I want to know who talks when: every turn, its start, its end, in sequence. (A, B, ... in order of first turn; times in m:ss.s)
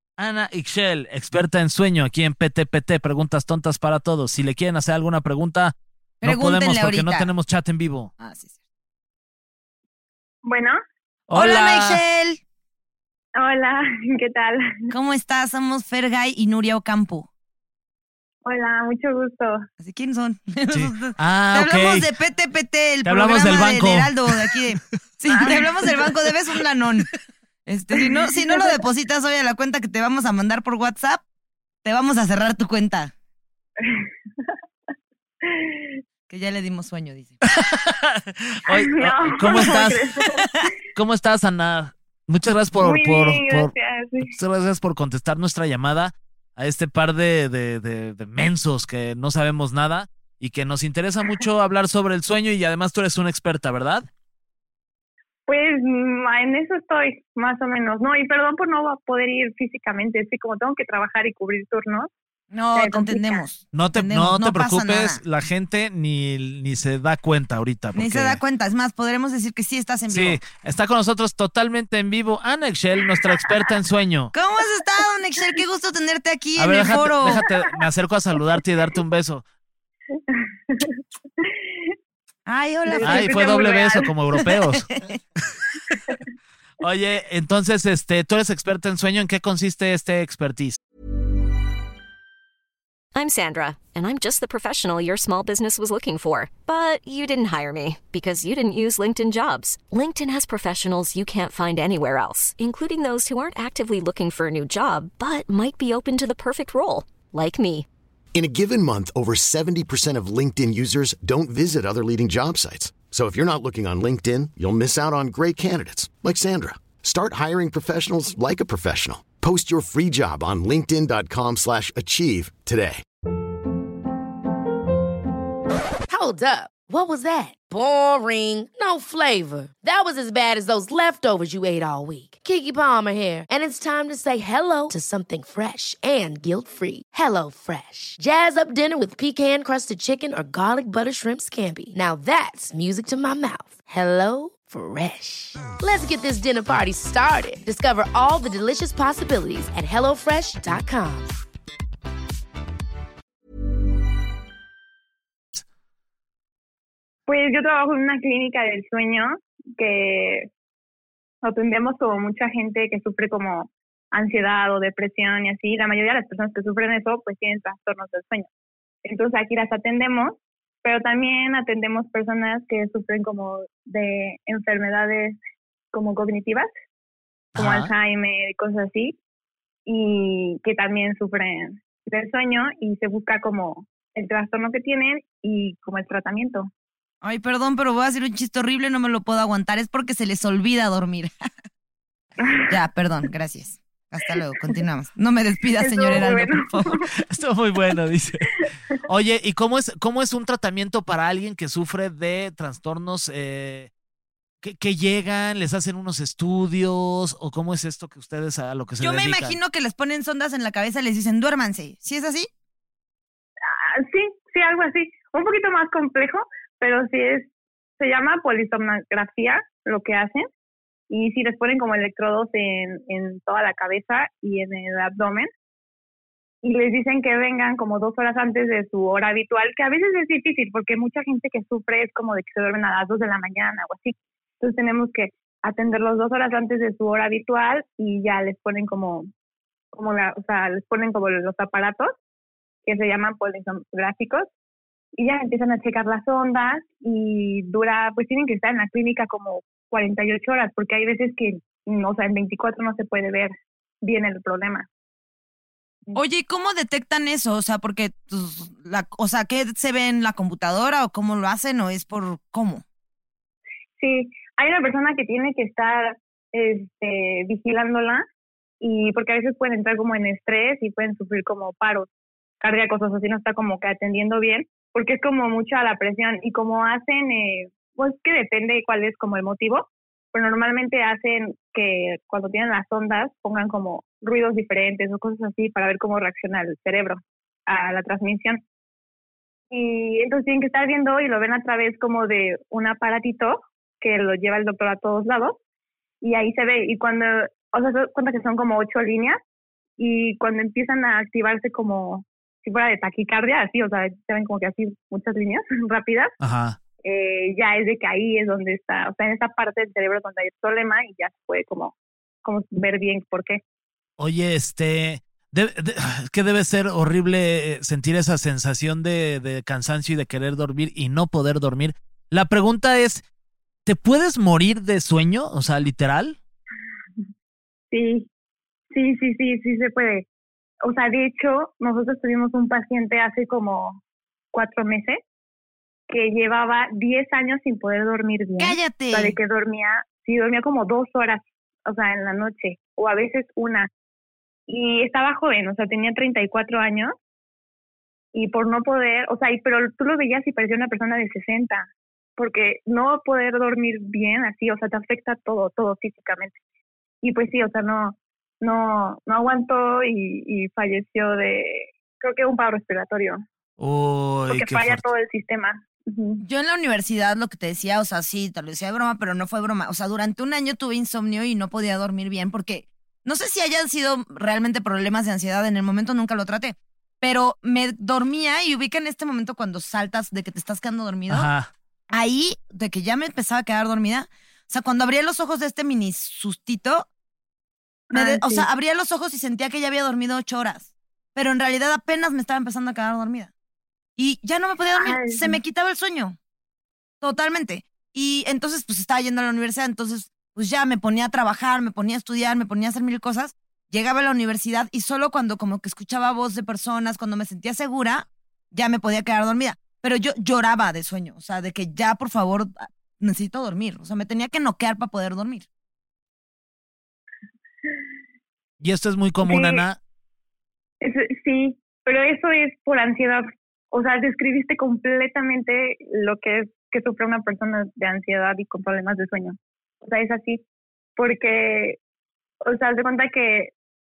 0:00.2-0:08.1 A
0:06.2-0:07.3 B
0:08.2-0:08.6 B
0:10.4-0:10.8 C
0:11.3-0:12.0 A
0:11.3-0:12.4 B
0:13.4-0:14.9 C
0:14.9-0:17.3 B
0:18.4-0:19.6 C
0:19.8-0:27.1 B
0:20.7-0:22.1 A
0:23.0-0:24.6 A
0:25.3-0:26.3 A
0:27.7-0:31.2 B
0:31.8-0:33.1 B
0:33.8-0:34.1 C
0:35.4-0:36.0 C
0:36.3-0:37.4 B
0:37.5-0:40.1 A
0:38.7-0:40.5 C
0:41.0-0:54.1 A
0:42.8-0:44.3 C
0:55.5-1:02.1 C
1:02.5-1:05.2 B
1:02.8-1:03.4 C
1:03.7-1:08.4 A
1:08.0-1:10.4 B
1:10.1-1:14.3 A
1:14.3-1:17.4 B
1:16.6-1:19.4 A
1:20.3-1:21.9 C
1:22.5-1:23.4 B
1:22.9-1:24.1 C
1:23.0-1:24.9 A
1:24.4-1:25.2 B
1:25.4-1:26.0 A
1:26.8-1:30.8 A
1:33.2-1:47.9 D
1:48.3-2:03.0 E
2:06.1-2:31.3 F
2:37.3-2:40.5 C
2:41.4-2:48.5 C
2:49.0-2:55.4 C
2:55.9-2:56.7 C
2:57.6-2:57.9 A
2:57.6-2:59.2 C
2:59.9-3:06.7 C
3:07.2-3:11.3 B
3:12.4-3:12.8 C
3:12.7-3:17.0 B
3:15.8-3:17.1 C
3:17.2-3:23.9 A
3:24.6-3:29.6 A
3:29.0-3:32.5 B
3:33.7-3:40.5 C
3:41.1-3:45.5 C
3:46.6-3:59.3 C
3:59.9-4:02.1 C
4:02.8-4:04.5 C
4:05.2-4:13.5 C
4:14.0-4:14.9 C
4:16.2-4:22.8 B
4:24.0-4:28.2 C
4:28.8-4:32.1 C
4:32.6-4:48.6 C
4:49.7-4:55.6 C
4:56.2-4:59.4 C
5:00.0-5:06.3 C
5:06.4-5:06.8 A
5:07.0-5:13.6 C
5:14.2-5:23.2 A
5:23.8-5:26.4 A
5:27.9-5:28.3 C
5:28.9-5:30.3 C
5:30.8-5:34.0 C
5:34.5-5:35.2 C
5:36.1-5:43.9 C
5:38.6-5:39.4 B
5:44.7-5:47.1 C
5:48.3-5:56.6 C
5:57.2-6:03.4 C
6:03.8-6:05.1 A
6:04.5-6:06.4 C
6:06.4-6:21.5 B
6:21.3-6:21.7 A
6:22.1-6:27.1 B
6:28.1-6:28.7 C
6:28.1-6:33.5 B
6:34.2-6:36.4 B
6:35.0-6:35.6 C
6:37.2-6:55.6 B
6:58.8-7:00.0 A
6:59.4-6:59.8 C
7:01.0-7:10.6 C
7:11.2-7:12.0 C
7:12.6-7:13.7 C